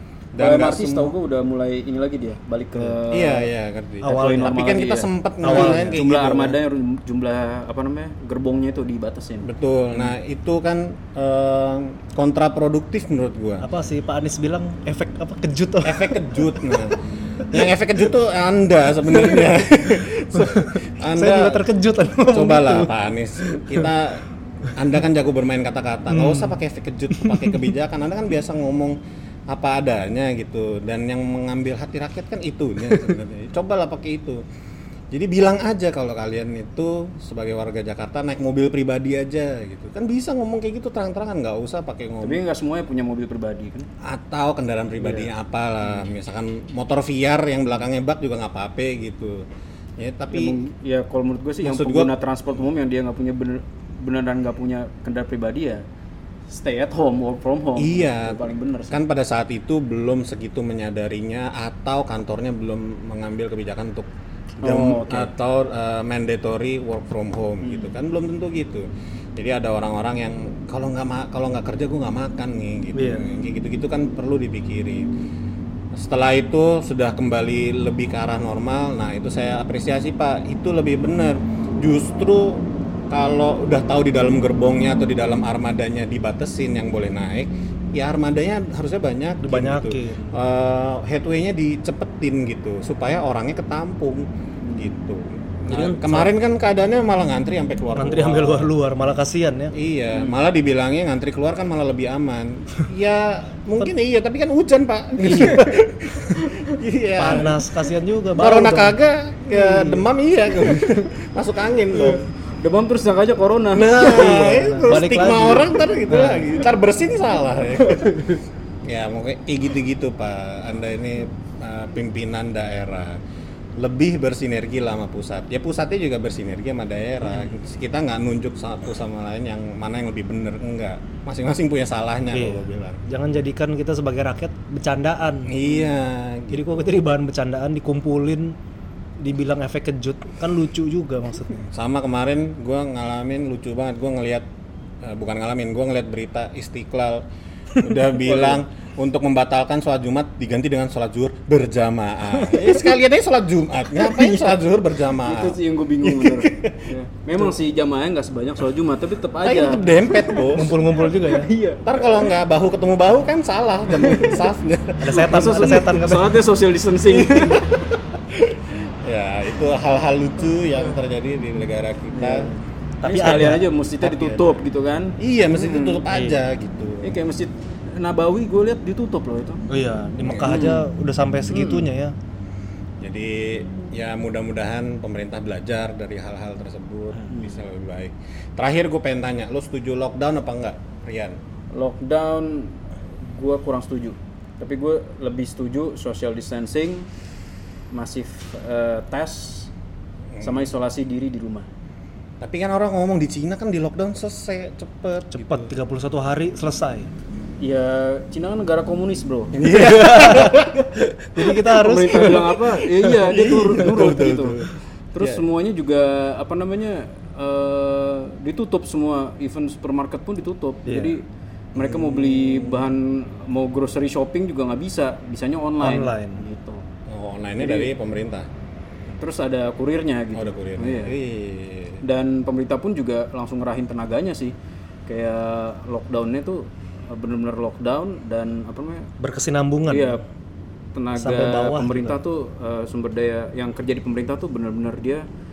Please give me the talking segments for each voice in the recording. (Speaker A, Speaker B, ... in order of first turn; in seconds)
Speaker A: 0.3-1.1, 3.1-6.5, 9.4-13.7, 15.8-21.7, 22.3-29.0, 29.5-34.4, 35.1-42.4, 44.0-50.6, 51.6-52.1, 57.8-64.1, 64.6-75.1, 75.9-98.7, 99.7-107.5, 108.3-112.2, 113.7-118.3, 118.8-123.2, 123.8-133.0, 135.5-136.9, 141.7-144.5, 145.0-147.2, 147.8-156.9, 159.4-160.7, 161.8-165.2, 167.1-172.5, 175.2-177.2, 180.2-180.7, 183.0-191.4, 200.3-200.7, 202.4-205.7, 209.5-215.4, 221.8-222.9, 227.1-228.5, 230.3-232.0
Speaker B: 0.4-3.5, 4.1-9.5, 42.2-43.9, 50.3-55.8, 56.5-59.0, 64.6-65.3, 67.6-67.9, 94.6-94.9, 100.1-100.4, 112.1-114.5, 117.8-118.1, 148.1-148.6, 154.0-160.5, 161.0-162.3, 163.9-164.5, 165.1-167.7, 172.1-176.1, 177.0-179.7, 180.4-180.9, 181.5-181.9, 187.3-187.6, 191.7-197.1, 197.9-199.7, 200.4-201.7, 207.6-209.6, 211.7-214.6, 215.1-221.2, 221.8-226.8, 227.6-227.9, 229.2-231.2, 232.0-234.5, 235.1-239.1, 239.9-240.2, 240.9-245.2
Speaker C: 4.0-4.6, 5.4-6.0, 13.6-16.9, 20.3-23.9, 26.1-26.6, 27.1-27.5, 32.9-33.2, 73.0-73.3, 89.4-90.3, 95.7-96.3, 98.0-99.7, 105.2-105.7, 107.2-109.0, 109.5-110.0, 110.7-111.1, 114.0-116.5, 132.3-135.5, 136.5-138.6, 139.2-141.7, 160.5-161.5, 165.0-166.3, 173.0-174.5, 176.1-176.4, 179.7-182.1, 205.3-207.1, 209.7-210.8, 211.3-213.1, 220.9-221.2, 225.8-226.4, 239.2-240.2, 241.2-242.2